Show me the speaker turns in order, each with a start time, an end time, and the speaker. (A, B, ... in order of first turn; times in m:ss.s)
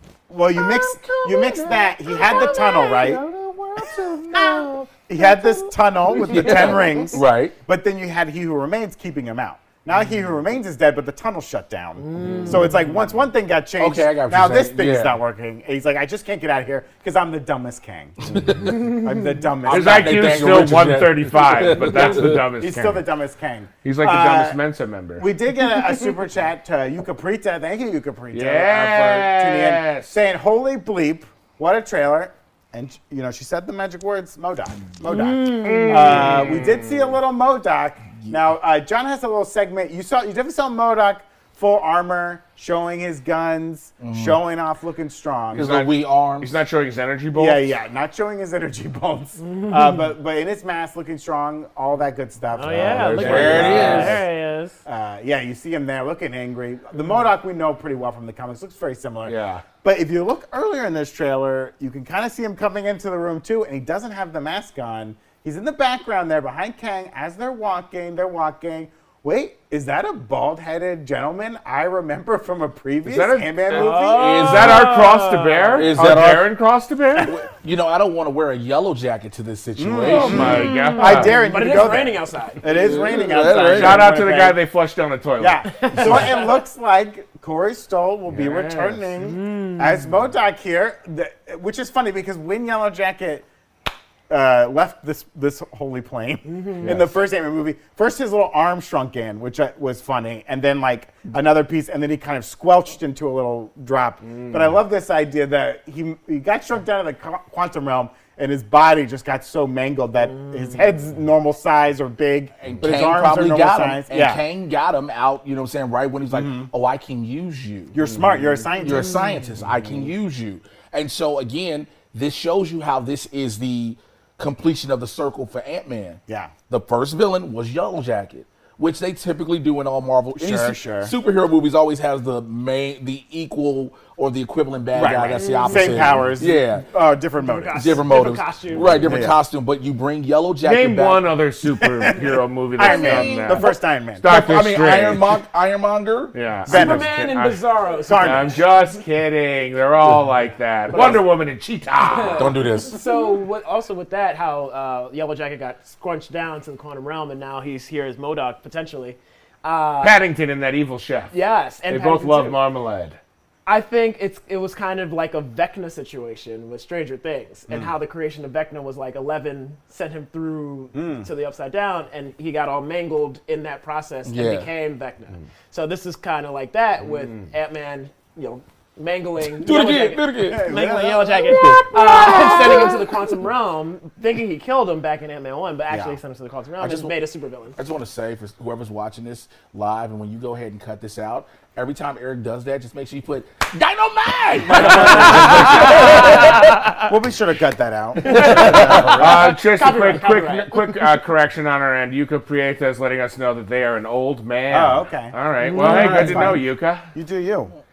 0:00.3-0:03.2 A
0:00.5-0:07.6 B
0:04.3-0:20.4 A
0:12.0-0:12.9 C
0:13.8-0:15.2 B
0:18.3-0:18.9 B
0:19.6-0:22.4 B
0:19.6-0:23.1 D
0:22.0-0:24.6 A
0:23.8-0:25.2 D
0:25.2-0:45.7 A
0:28.3-0:30.2 D
0:35.0-0:36.5 C
0:35.6-0:37.1 D
0:44.0-0:44.4 B
0:45.5-0:47.7 D
0:45.5-0:46.5 B
0:47.3-0:54.2 A
0:49.4-0:50.0 C
0:52.5-0:54.8 C
0:52.6-0:54.2 D
0:53.1-0:54.2 B
0:54.8-1:14.4 A
0:59.2-0:59.6 D
1:13.0-1:17.4 D
1:13.7-1:16.0 C
1:14.1-1:15.0 B
1:15.7-1:16.5 B
1:17.2-1:20.7 B
1:19.8-1:24.6 A
1:20.1-1:21.4 D
1:20.1-1:23.0 C
1:22.7-1:24.1 B
1:23.7-1:26.2 D
1:25.4-1:33.4 A
1:25.8-1:26.5 C
1:28.3-1:29.0 D
1:29.2-1:30.1 C
1:34.3-1:54.4 A
1:36.4-1:37.0 C
1:36.8-1:37.1 D
1:44.2-1:44.8 D
1:52.6-1:57.9 B
1:56.3-1:56.7 A
1:57.9-1:59.2 A
1:58.0-1:58.4 D
1:58.8-2:16.9 B
2:06.3-2:06.5 A
2:10.4-2:11.1 A
2:14.9-2:18.0 A
2:15.4-2:16.2 C
2:17.4-2:19.3 C
2:17.7-2:21.3 B
2:19.0-2:19.4 A
2:20.6-2:25.3 D
2:21.8-2:24.2 A
2:22.8-2:23.7 C
2:24.2-2:26.3 B
2:26.3-2:27.6 D
2:26.7-2:27.1 A
2:26.7-2:28.9 C
2:28.0-2:28.6 A
2:28.2-2:32.5 D
2:30.9-2:31.2 C
2:32.0-2:40.2 C
2:32.3-2:33.0 B
2:40.0-2:41.3 D
2:41.3-2:42.6 C
2:41.9-2:43.2 D
2:43.6-3:07.8 C
2:50.9-2:51.3 A
2:54.2-2:54.7 B
2:57.1-2:57.4 D
2:59.4-3:03.2 B
3:00.4-3:01.4 A
3:05.9-3:06.2 A
3:06.8-3:07.1 B
3:07.8-3:16.7 B
3:14.7-3:16.9 C
3:14.8-3:19.4 A
3:18.2-3:20.9 C
3:18.3-3:19.3 B
3:18.7-3:27.1 D
3:24.7-3:27.7 A
3:25.7-3:26.1 C
3:25.7-3:26.6 B